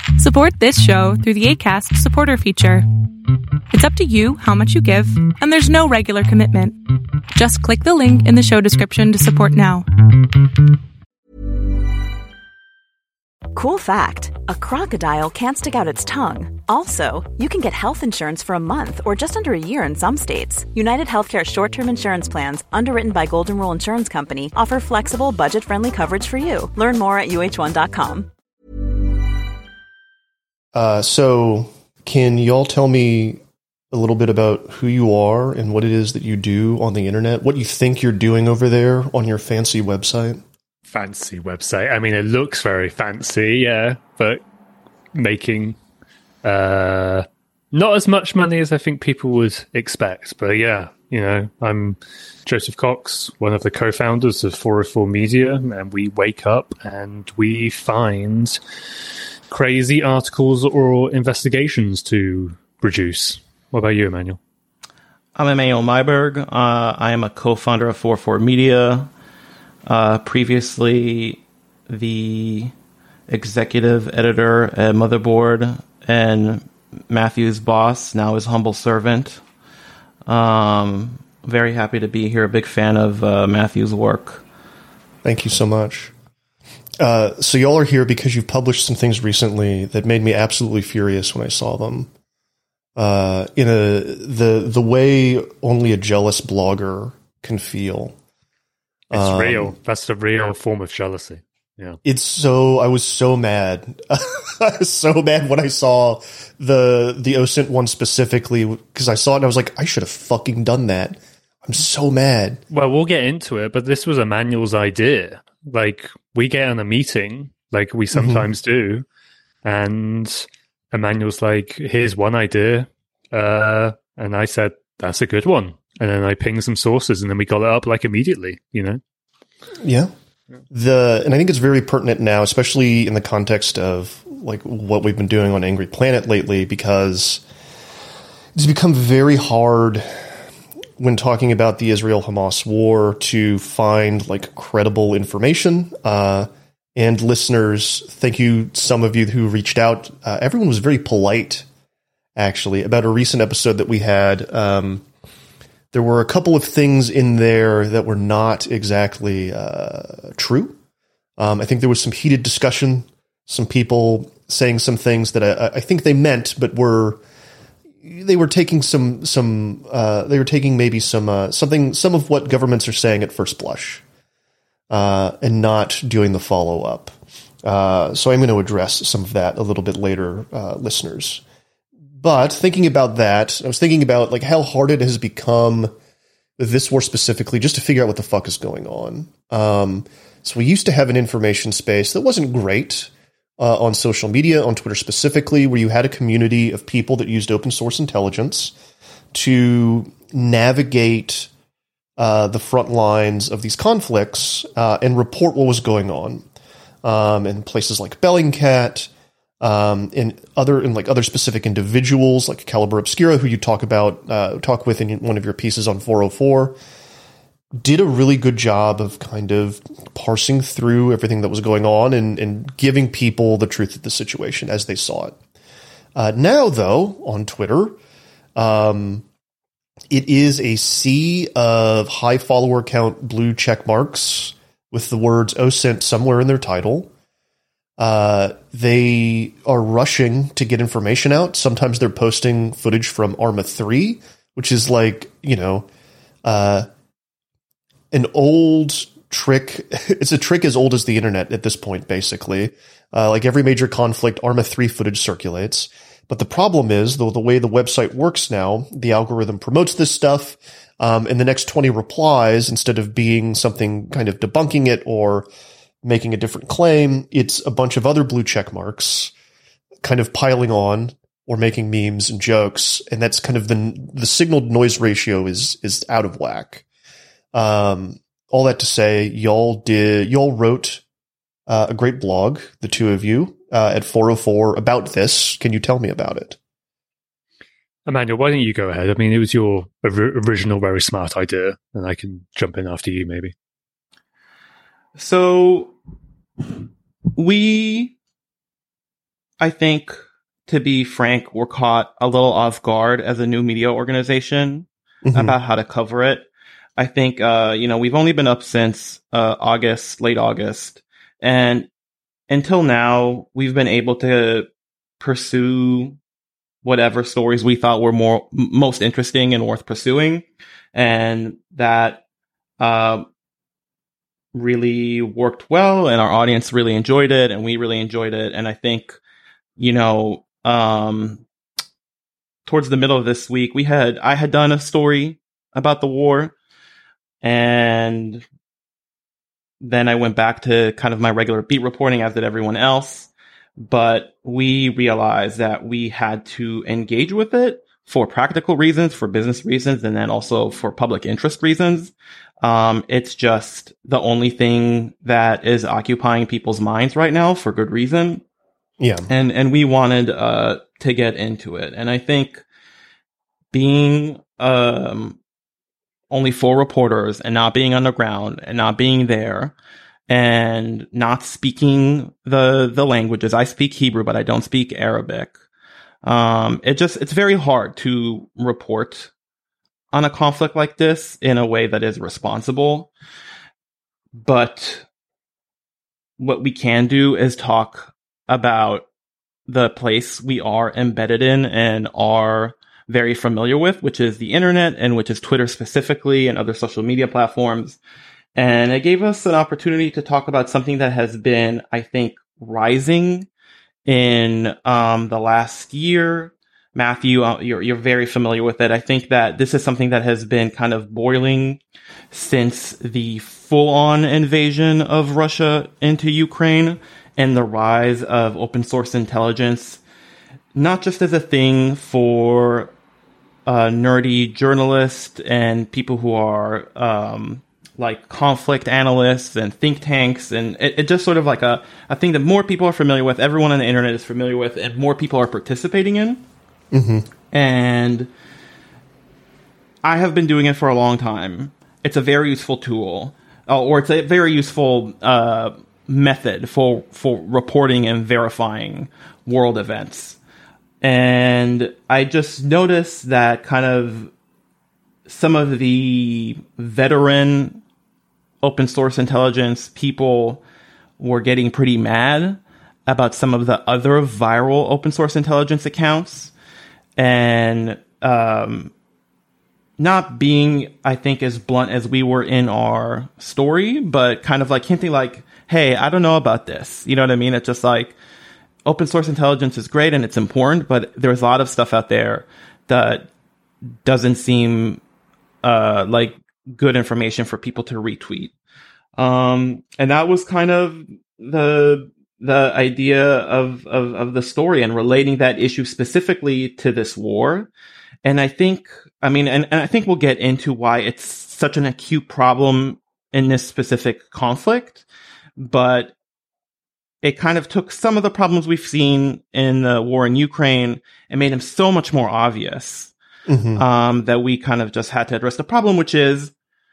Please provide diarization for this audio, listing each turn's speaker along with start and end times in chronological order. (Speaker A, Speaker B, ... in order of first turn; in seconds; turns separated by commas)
Speaker A: 0.2-2.9, Speaker A: 3.7-6.8, Speaker A: 7.3-9.9, Speaker B: 13.5-28.3, Speaker C: 30.7-40.4, Speaker D: 40.9-44.4, Speaker D: 45.1-45.8, Speaker D: 46.4-58.6, Speaker D: 59.5-64.4, Speaker E: 65.3-69.1, Speaker E: 69.8-72.7, Speaker E: 73.3-79.4, Speaker E: 80.2-84.4, Speaker C: 85.2-86.1, Speaker C: 87.0-92.1, Speaker C: 93.0-98.2, Speaker C: 99.1-99.8, Speaker D: 99.1-102.0, Speaker C: 102.0-112.6, Speaker D: 112.7-119.0, Speaker C: 118.1-118.5, Speaker D: 119.6-129.0, Speaker C: 129.8-130.1, Speaker C: 130.7-137.4, Speaker C: 138.5-140.3, Speaker C: 141.0-151.7, Speaker C: 152.3-155.1, Speaker C: 155.9-160.8, Speaker C: 161.4-167.2, Speaker C: 168.0-174.0, Speaker C: 174.9-181.4, Speaker C: 182.2-185.9, Speaker C: 186.6-198.7, Speaker C: 199.3-201.5, Speaker C: 202.2-206.4, Speaker C: 207.0-209.1, Speaker C: 209.6-216.8, Speaker C: 217.7-225.4, Speaker C: 226.1-228.0, Speaker C: 228.5-229.2, Speaker C: 230.1-237.1, Speaker C: 238.0-245.9, Speaker C: 246.4-246.9, Speaker C: 248.1-265.5, Speaker C: 266.0-269.3, Speaker C: 270.0-276.8, Speaker C: 277.5-281.0, Speaker C: 281.7-286.6, Speaker D: 288.1-293.5, Speaker E: 295.1-295.9, Speaker E: 297.3-298.1, Speaker E: 299.6-300.1, Speaker E: 300.7-311.9, Speaker C: 305.2-305.6, Speaker E: 312.5-314.7, Speaker E: 315.2-316.2, Speaker E: 316.8-322.2, Speaker E: 322.8-323.3, Speaker E: 324.5-329.2, Speaker E: 329.8-331.4, Speaker E: 332.6-336.5, Speaker E: 337.4-338.4, Speaker E: 339.8-358.4, Speaker C: 359.0-359.3, Speaker E: 359.3-362.6, Speaker E: 363.7-365.4, Speaker E: 366.3-369.7, Speaker E: 370.3-375.5, Speaker E: 376.2-379.3, Speaker E: 380.1-383.1, Speaker E: 384.3-385.0, Speaker E: 386.4-389.1, Speaker E: 389.7-398.0, Speaker E: 398.5-403.5, Speaker E: 404.1-411.8, Speaker E: 412.3-420.0, Speaker E: 420.7-422.9, Speaker E: 423.6-436.4, Speaker C: 436.9-437.3, Speaker E: 437.5-438.3, Speaker E: 440.0-450.4, Speaker E: 451.0-454.3, Speaker E: 455.3-457.8, Speaker E: 458.6-460.6, Speaker E: 461.2-466.5, Speaker E: 467.2-468.9, Speaker E: 470.0-478.1, Speaker E: 478.8-483.3, Speaker E: 484.0-485.0, Speaker E: 485.6-488.5, Speaker E: 489.1-497.7, Speaker E: 498.2-505.0, Speaker E: 505.6-506.1, Speaker E: 507.2-513.1, Speaker C: 513.5-513.8, Speaker E: 513.8-516.5